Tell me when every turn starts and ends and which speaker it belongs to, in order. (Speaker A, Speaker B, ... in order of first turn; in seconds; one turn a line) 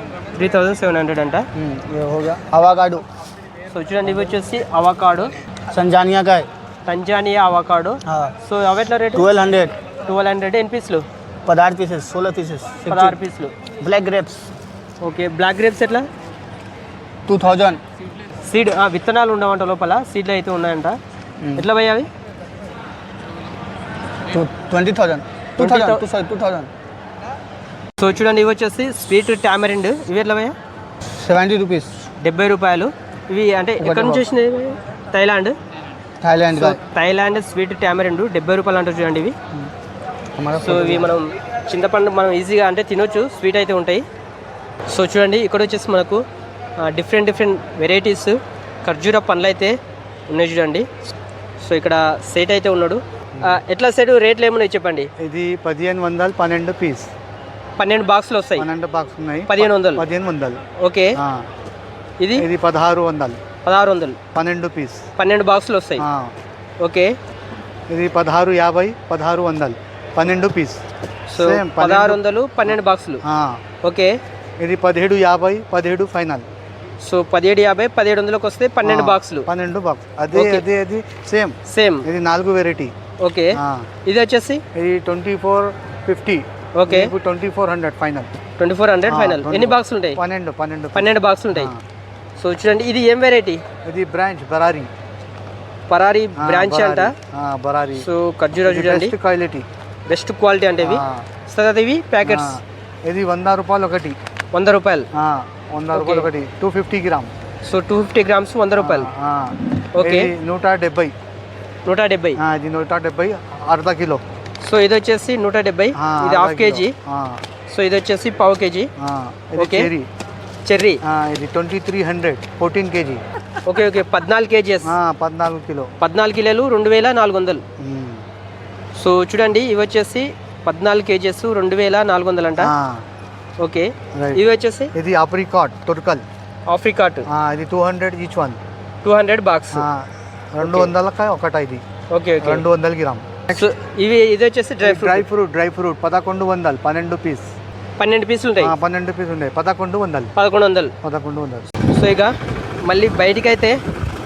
Speaker A: 0.3-1.5
Speaker B: 1.6-3.1
Speaker A: 3.7-5.3
Speaker B: 5.7-6.5
Speaker A: 6.9-9.3
Speaker B: 8.1-8.3
Speaker B: 9.1-9.8
Speaker A: 10.1-11.1
Speaker B: 11.5-13.2
Speaker A: 12.9-13.6
Speaker B: 13.8-14.5
Speaker A: 15.0-16.1
Speaker B: 17.3-17.8
Speaker A: 18.4-21.0
Speaker B: 21.4-21.7
Speaker A: 21.6-22.1
Speaker B: 24.3-26.7
Speaker A: 25.6-26.0
Speaker A: 28.0-30.6
Speaker B: 31.1-32.0
Speaker A: 32.2-35.6
Speaker B: 33.8-34.3
Speaker B: 36.2-36.8
Speaker A: 36.5-39.4
Speaker B: 40.4-41.1
Speaker A: 40.6-44.0
Speaker A: 44.9-46.2
Speaker A: 46.8-50.9
Speaker A: 51.6-55.1
Speaker C: 55.2-57.1
Speaker A: 57.8-58.7
Speaker C: 58.6-60.6
Speaker A: 59.5-60.1
Speaker A: 60.8-61.2
Speaker C: 61.2-61.5
Speaker A: 62.2-62.5
Speaker C: 62.4-63.4
Speaker A: 63.6-64.2
Speaker C: 64.3-65.0
Speaker A: 65.2-66.0
Speaker C: 66.0-66.3
Speaker A: 66.8-67.2
Speaker C: 67.9-70.8
Speaker A: 71.3-73.2
Speaker C: 71.4-72.7
Speaker C: 73.2-73.6
Speaker A: 73.8-74.2
Speaker C: 74.6-76.5
Speaker A: 77.0-79.5
Speaker C: 78.8-82.9
Speaker A: 80.3-80.7
Speaker A: 81.7-82.1
Speaker A: 83.2-84.6
Speaker C: 83.5-83.9
Speaker C: 84.8-88.3
Speaker A: 86.8-87.1
Speaker A: 88.6-90.2
Speaker C: 89.1-91.8
Speaker A: 91.0-91.7
Speaker A: 92.4-93.6
Speaker C: 93.8-94.9
Speaker A: 95.9-97.1
Speaker C: 96.4-98.1
Speaker A: 98.0-99.1
Speaker C: 98.7-99.7
Speaker A: 100.1-102.6
Speaker C: 100.8-101.3
Speaker C: 102.2-104.2
Speaker A: 104.5-105.1
Speaker C: 105.1-107.3
Speaker A: 105.9-106.3
Speaker A: 107.7-109.1
Speaker C: 108.8-111.1
Speaker A: 110.0-110.3
Speaker A: 111.8-112.4
Speaker C: 112.4-114.2
Speaker A: 114.6-116.9
Speaker C: 116.0-117.4
Speaker A: 117.7-118.9
Speaker C: 119.0-120.1
Speaker A: 119.6-119.9
Speaker A: 120.7-121.0
Speaker C: 121.0-123.2
Speaker A: 123.7-124.9
Speaker C: 124.8-125.9
Speaker A: 126.0-127.6
Speaker C: 127.8-128.2
Speaker A: 128.9-132.7
Speaker C: 132.6-133.0
Speaker A: 133.6-134.9
Speaker C: 134.1-134.4
Speaker C: 134.9-136.2
Speaker A: 136.7-137.3
Speaker C: 137.3-138.6
Speaker A: 139.0-139.9
Speaker C: 139.7-141.8
Speaker A: 140.6-140.9
Speaker A: 142.1-142.7
Speaker C: 142.4-143.7
Speaker A: 143.5-145.3
Speaker C: 144.8-147.5
Speaker A: 148.0-148.8
Speaker C: 148.6-150.3
Speaker A: 150.4-150.9
Speaker C: 151.0-151.7
Speaker A: 151.9-152.3
Speaker A: 152.8-153.8